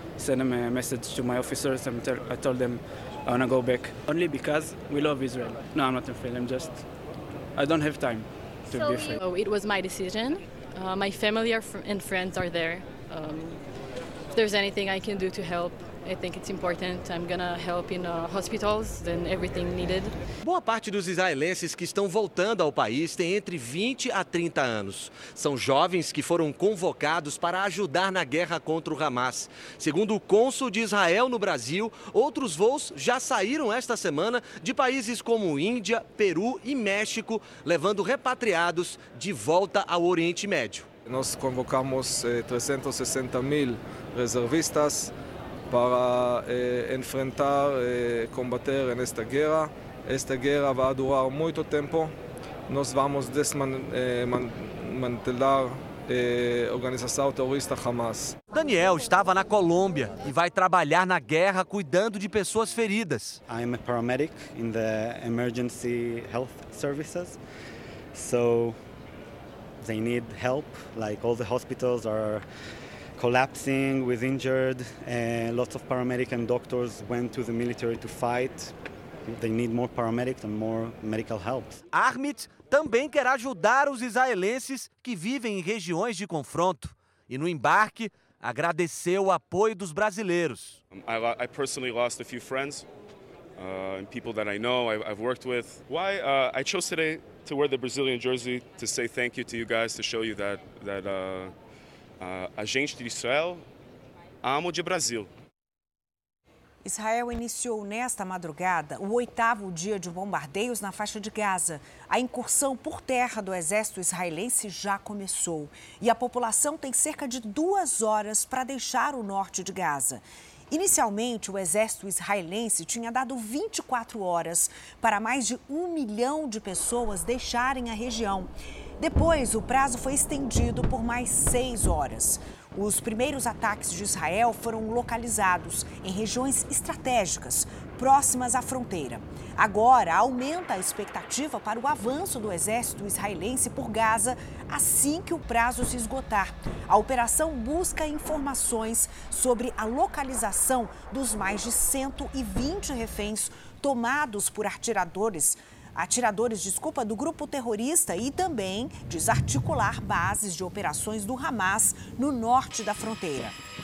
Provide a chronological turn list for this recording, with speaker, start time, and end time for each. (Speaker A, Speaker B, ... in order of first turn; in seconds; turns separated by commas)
Speaker A: 0.4-2.8, Speaker A: 3.4-6.7, Speaker A: 7.7-8.2, Speaker B: 8.7-13.7, Speaker B: 14.3-20.1, Speaker C: 20.4-40.9, Speaker D: 41.1-45.1, Speaker D: 45.7-52.2, Speaker D: 52.7-58.4, Speaker C: 58.5-63.4, Speaker E: 63.5-67.4, Speaker E: 68.1-68.8, Speaker E: 69.8-72.4, Speaker E: 73.2-81.8, Speaker C: 81.9-90.8, Speaker F: 90.9-92.9, Speaker F: 93.6-101.5, Speaker F: 102.2-103.6, Speaker F: 104.4-105.3, Speaker G: 106.8-163.6